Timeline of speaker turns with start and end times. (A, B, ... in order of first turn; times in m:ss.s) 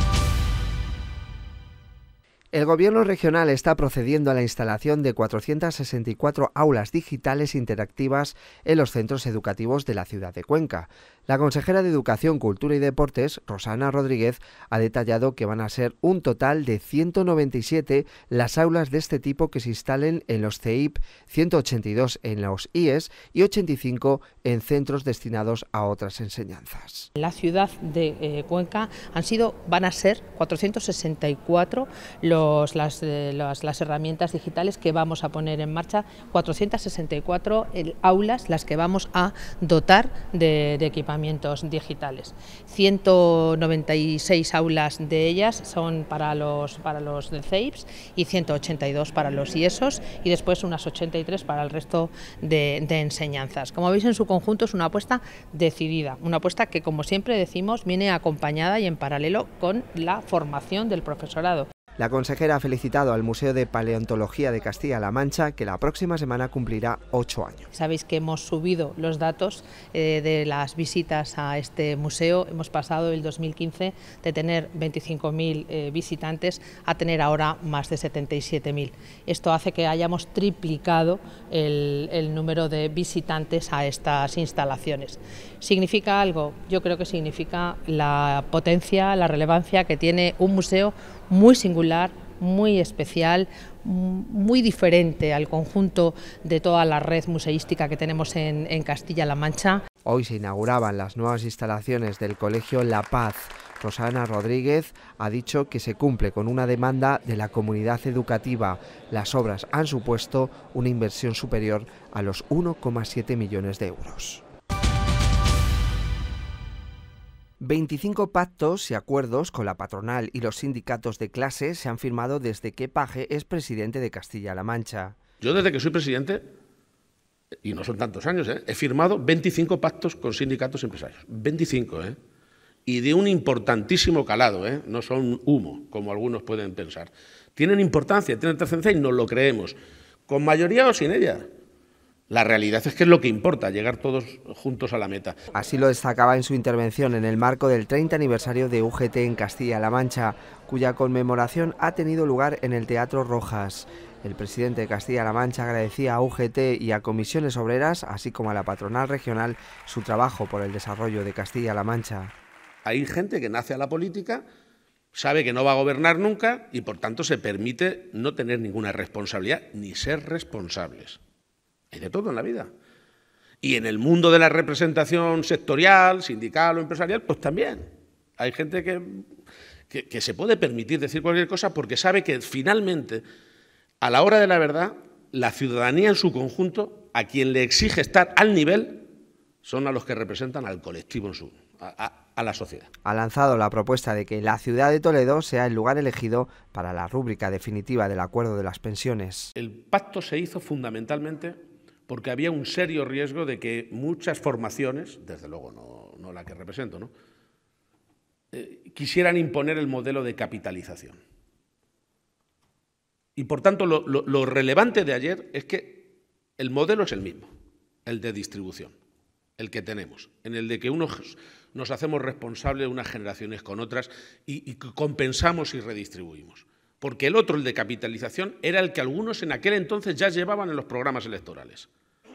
0:02.5-0:27.1 A
0:27.2-1:01.7 B
1:02.0-1:07.7 A
1:07.7-1:39.8 B
1:40.0-1:54.4 A
1:57.6-2:05.2 A
2:05.4-2:06.5 C
2:07.6-2:12.2 C
2:12.9-2:19.8 C
2:20.3-2:21.5 C
2:22.3-2:25.4 C
2:25.6-2:42.3 A
2:42.8-2:44.4 C
2:45.1-2:51.2 C
2:51.9-2:52.7 C
2:53.6-2:59.2 C
2:59.9-3:03.2 C
3:04.0-3:09.0 C
3:09.6-3:12.9 C
3:13.0-3:19.5 A
3:19.6-3:27.1 C
3:28.5-3:31.2 C
3:33.4-3:37.5 C
3:38.1-3:38.9 C
3:39.6-3:51.9 C